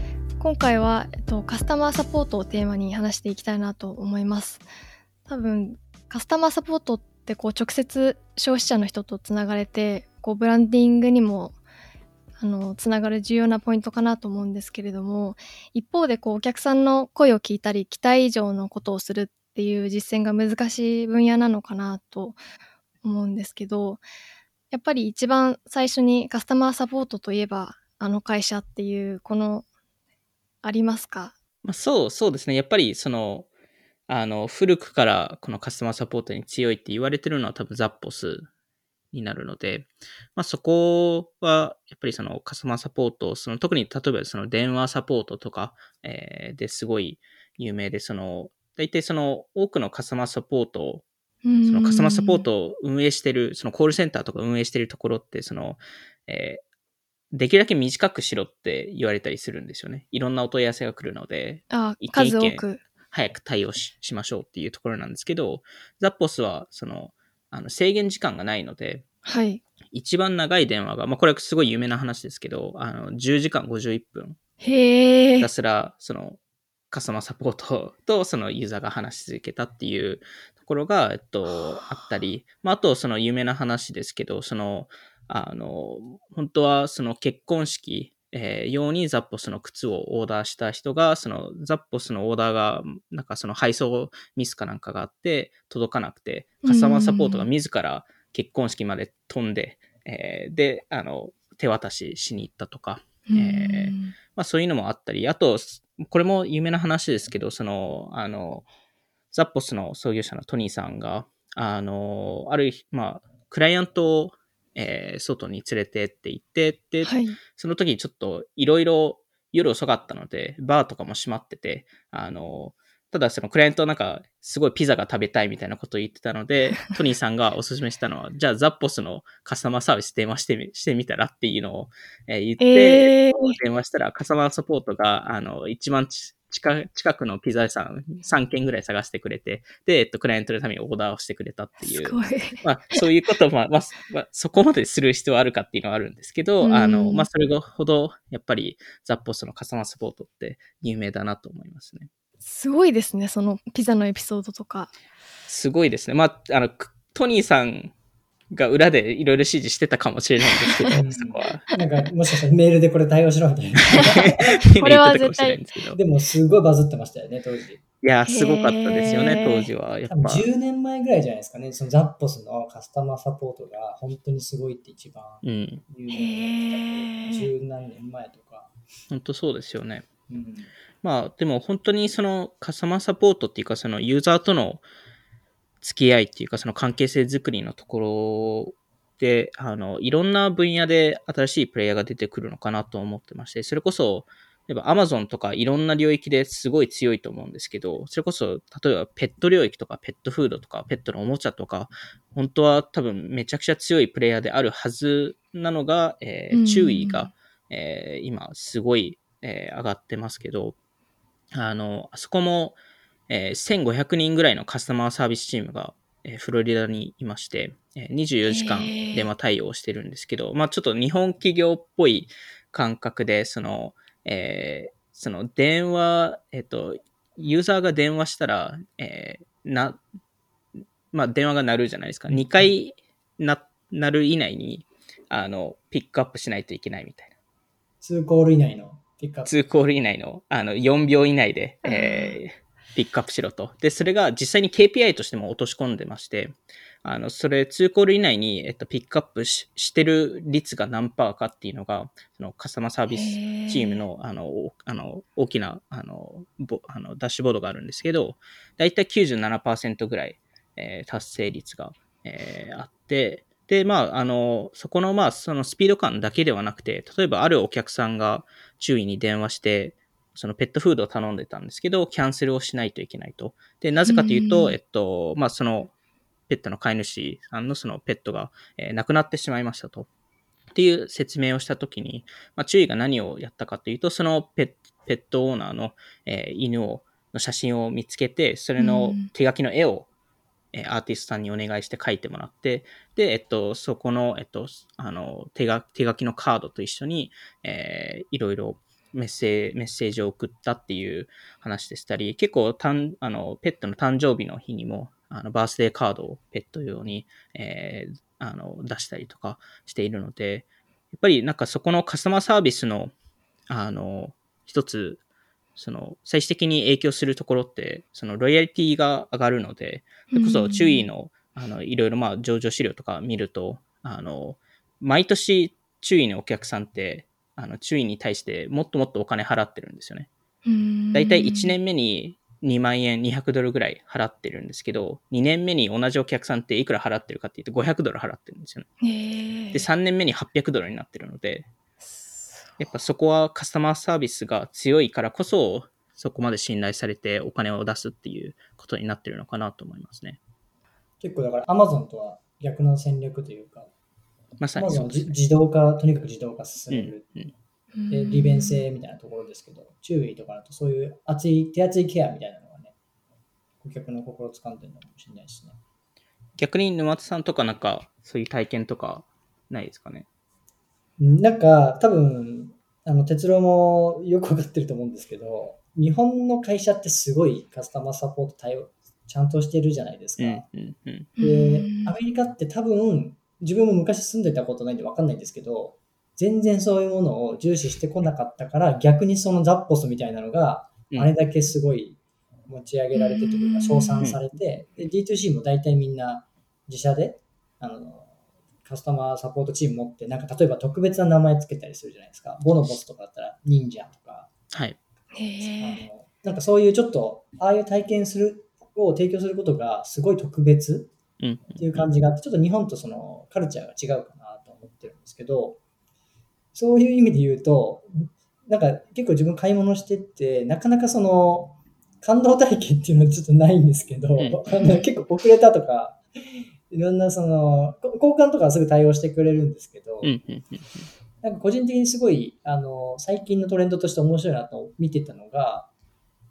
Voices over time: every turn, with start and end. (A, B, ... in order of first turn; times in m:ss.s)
0:00.4-0:04.6 A
0:05.3-0:11.6 A
0:12.4-0:22.4 A
0:23.0-0:24.0 A
0:24.7-0:29.7 A
0:30.6-0:31.4 A
0:31.6-0:33.5 B
0:34.1-0:38.5 B
0:39.1-0:51.0 B
0:51.4-0:52.4 A
0:51.6-0:56.6 B
0:57.3-1:09.0 B
1:01.7-1:02.8 A
1:09.2-1:09.6 A
1:09.9-1:14.4 B
1:14.6-1:15.5 A
1:15.4-1:16.4 B
1:16.9-1:48.7 B
1:21.5-1:22.0 A
1:36.6-1:37.5 A
1:43.3-1:44.1 A
1:49.3-2:32.1 B
1:57.0-1:57.4 A
2:12.6-2:13.6 A
2:21.8-2:23.0 A
2:26.6-2:27.3 A
2:32.4-2:34.9 A
2:35.5-2:37.9 B
2:38.5-2:41.6 B
2:40.7-2:41.0 A
2:41.0-2:44.4 C
2:44.0-2:45.6 A
2:44.0-2:46.0 B
2:46.0-2:47.8 C
2:48.0-2:50.5 B
2:48.3-2:49.7 A
2:50.1-2:58.7 C
2:55.4-2:55.8 B
2:56.1-2:57.5 A
2:59.1-3:00.1 B
3:00.3-3:00.7 C
3:01.0-3:04.8 B
3:05.8-3:30.8 B
3:26.5-3:27.3 A
3:31.5-3:32.8 B
3:33.3-3:50.0 B
3:38.5-3:39.3 A
3:51.1-3:57.3 B
3:52.3-3:52.7 C
3:58.0-3:59.5 C
3:59.5-4:35.9 B
4:01.8-4:02.4 A
4:13.1-4:14.0 A
4:34.1-4:34.8 A
4:36.5-4:40.1 B
4:40.7-4:50.1 B
4:48.8-4:49.3 A
4:50.7-5:13.1 B
5:13.7-5:15.2 B
5:15.8-5:30.3 B
5:20.3-5:21.1 A
5:30.6-5:31.8 A
5:31.1-5:38.9 B
5:39.0-5:39.8 A
5:39.7-5:41.7 B
5:42.2-5:42.8 A
5:42.8-5:50.4 B
5:51.2-5:53.9 C
5:54.6-5:55.4 B
5:54.8-5:57.3 C
5:56.9-5:57.5 B
5:57.9-5:58.8 A
5:58.1-6:02.9 C
6:03.8-6:05.8 C
6:06.6-6:10.2 B
6:11.2-6:20.6 C
6:20.4-6:21.3 B
6:21.4-6:22.1 A
6:21.4-6:38.3 C
6:33.1-6:34.3 A
6:38.8-6:44.5 C
6:44.7-6:45.0 B
6:45.3-6:46.1 A
6:45.6-6:51.1 C
6:51.4-6:52.1 B
6:51.8-6:55.8 C
6:56.8-7:10.3 C
7:04.4-7:04.7 B
7:10.2-7:11.1 B
7:11.4-7:15.9 C